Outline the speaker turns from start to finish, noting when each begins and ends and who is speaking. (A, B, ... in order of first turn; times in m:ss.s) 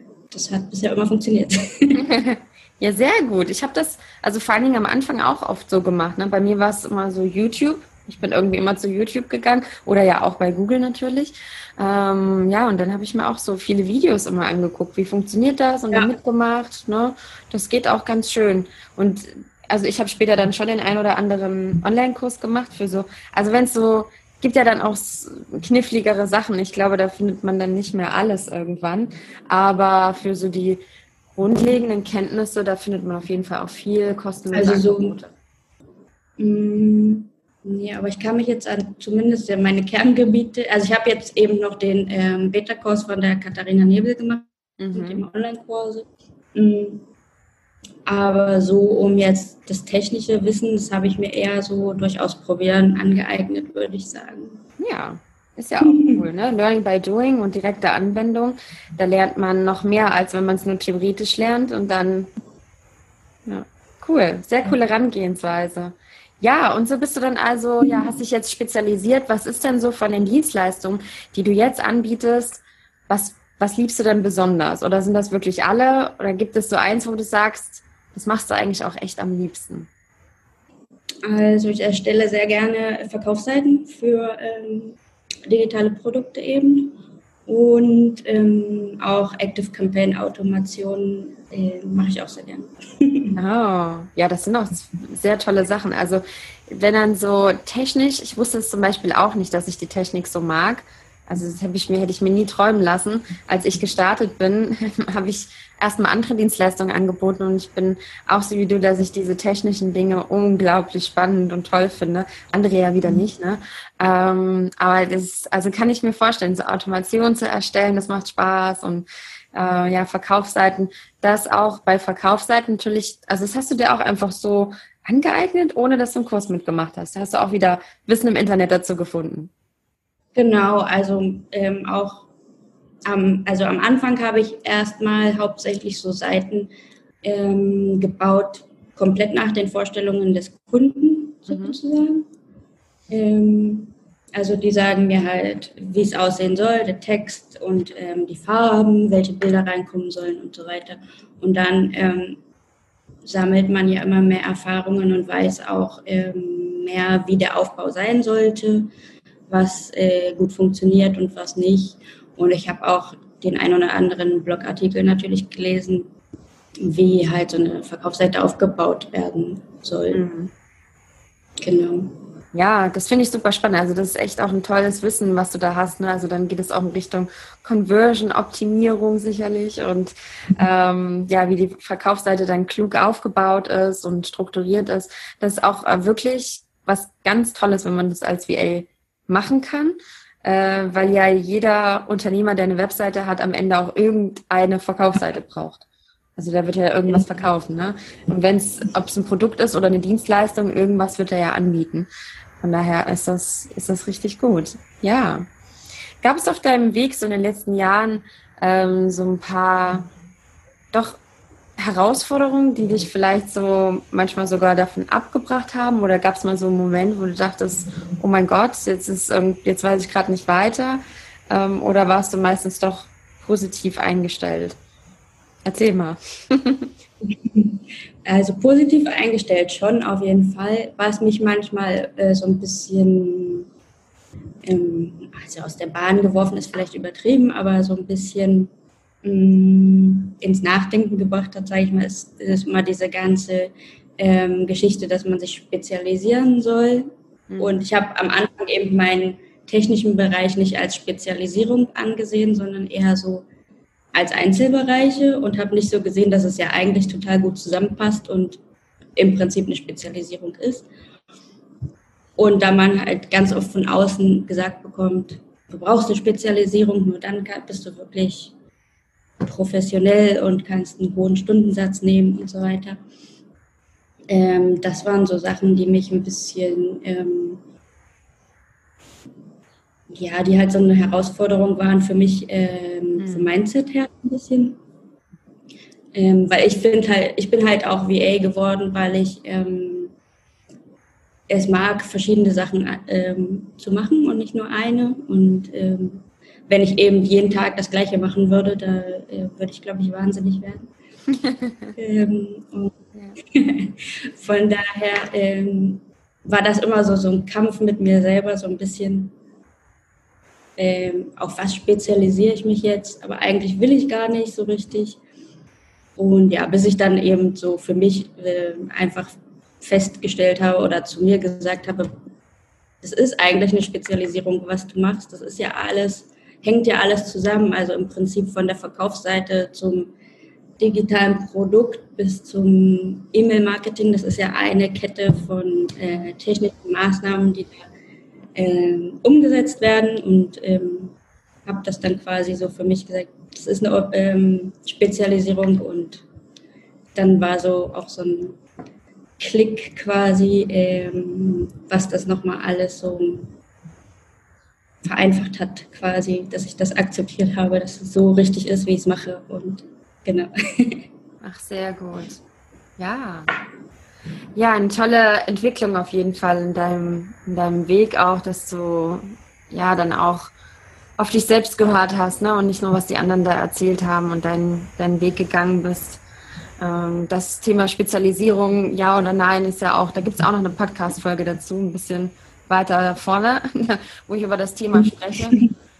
0:00.3-0:02.0 A
0:02.0-0:30.8 B
0:31.3-0:35.3 B
0:34.5-0:35.2 A
0:36.4-0:47.0 A
0:44.8-0:45.2 B
0:48.0-0:54.6 A
0:54.8-1:02.3 B
0:55.8-0:56.2 A
1:03.4-1:19.9 B
1:21.2-1:33.4 A
1:33.4-2:09.5 B
2:10.4-2:12.3 A
2:13.0-2:16.7 A
2:17.2-2:22.3 A
2:21.5-2:21.8 B
2:23.1-2:32.4 A
2:33.2-2:38.9 A
2:39.5-2:46.1 A
2:46.8-2:50.2 A
2:50.1-2:50.5 B
2:51.6-2:52.1 A
2:52.5-3:15.8 B
3:16.4-3:22.1 B
3:22.6-3:25.5 B
3:26.2-3:30.1 B
3:30.9-3:31.2 B
3:31.8-3:44.8 B
3:45.6-3:46.9 B
3:47.2-3:53.7 A
3:54.6-3:58.7 A
3:59.2-4:13.4 A
4:07.5-4:07.8 B
4:14.1-4:18.6 A
4:19.2-4:20.9 A
4:22.4-4:28.5 A
4:29.4-4:33.0 A
4:34.3-4:37.6 A
4:40.1-4:44.8 A
4:43.2-4:43.5 B
4:46.1-4:50.1 A
4:51.5-5:00.9 A
5:01.3-5:01.9 B
5:02.0-5:03.0 A
5:03.5-5:09.3 A
5:10.8-5:15.2 A
5:16.2-5:22.1 A
5:23.0-5:30.1 A
5:30.8-5:37.8 A
5:38.6-5:41.1 A
5:41.6-5:46.2 A
5:47.1-5:48.6 A
5:49.4-5:53.5 A
5:55.0-6:01.0 A
6:01.4-6:02.4 B
6:03.0-6:03.5 B
6:04.5-6:10.5 B
6:11.2-6:16.2 B
6:16.8-6:25.6 B
6:24.9-6:25.7 A